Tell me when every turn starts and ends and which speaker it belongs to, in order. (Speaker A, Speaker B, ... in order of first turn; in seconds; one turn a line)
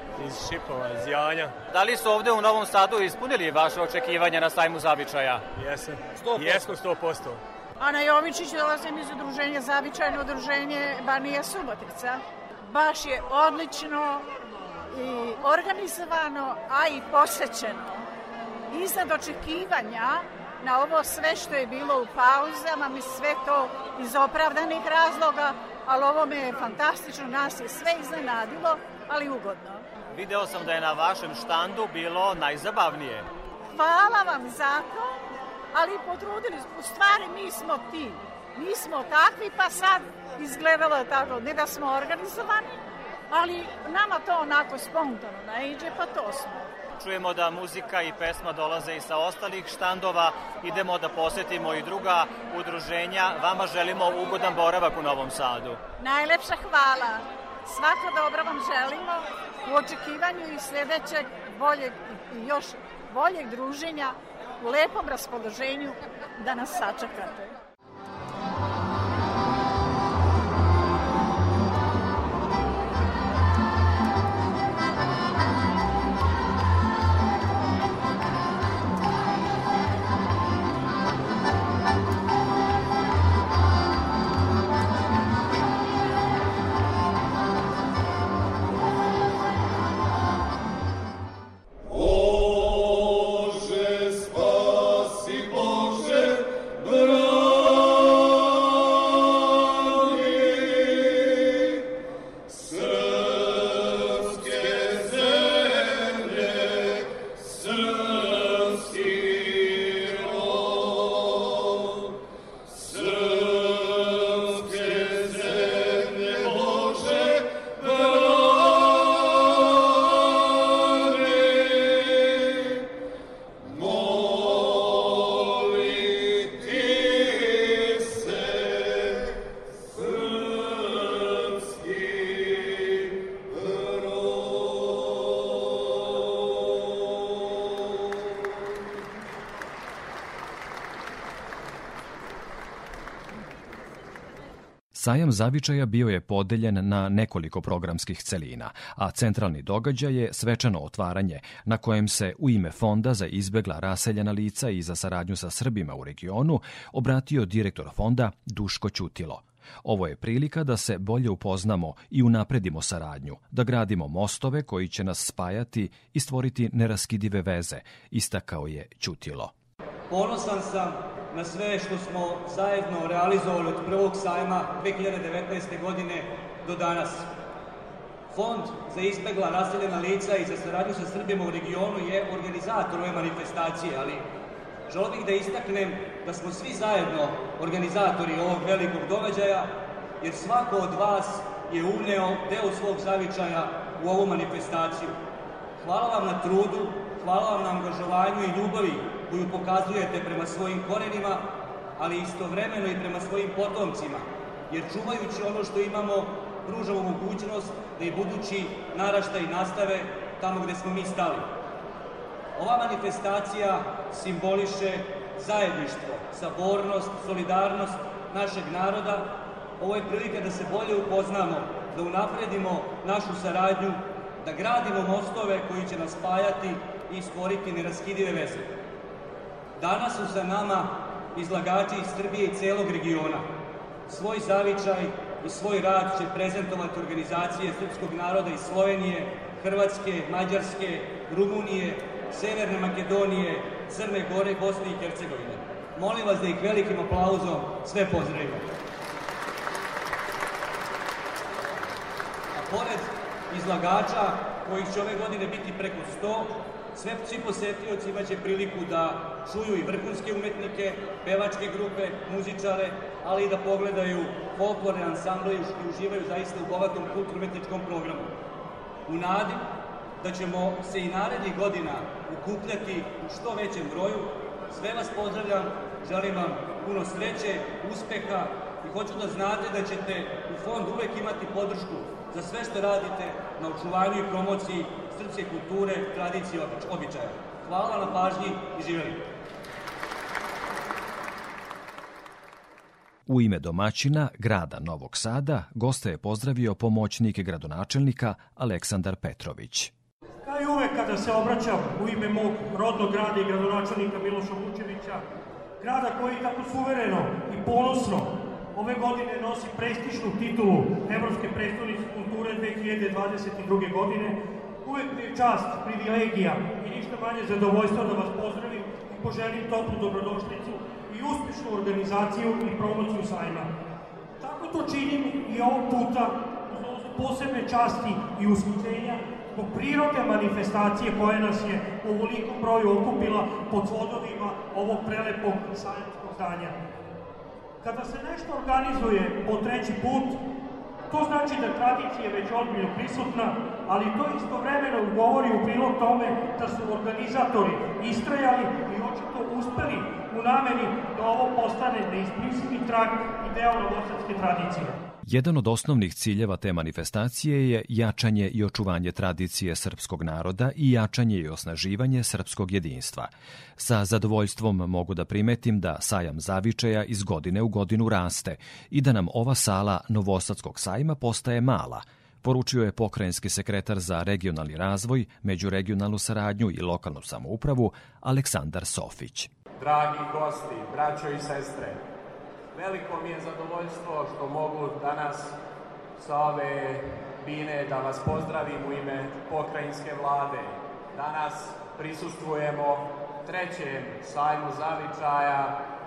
Speaker A: 0.2-1.5
Speaker B: 1.7-5.4
Speaker A: 5.5-7.4
Speaker B: 6.2-6.7
Speaker C: 7.8-14.2
Speaker C: 14.9-18.0
Speaker C: 18.7-29.8
Speaker B: 30.1-33.3
Speaker C: 33.7-35.2
Speaker C: 35.7-42.7
Speaker C: 43.3-46.7
Speaker B: 47.0-55.8
Speaker C: 56.0-67.5
Speaker D: 144.9-169.5
Speaker E: 170.1-177.2
Speaker E: 178.3-184.2
Speaker E: 184.9-195.2
Speaker E: 195.8-211.5
Speaker E: 212.6-228.7
Speaker E: 229.8-233.5
Speaker E: 234.1-248.7
Speaker E: 252.5-268.3
Speaker E: 269.1-269.6
Speaker E: 270.2-289.2
Speaker D: 293.3-299.9
Speaker F: 300.4-305.2
Speaker F: 305.8-323.7
Speaker F: 324.4-337.0
Speaker F: 337.8-340.4
Speaker F: 341.1-355.0
Speaker D: 355.2-379.5
Speaker G: 379.8-382.0
Speaker G: 382.7-385.6
Speaker G: 386.2-395.8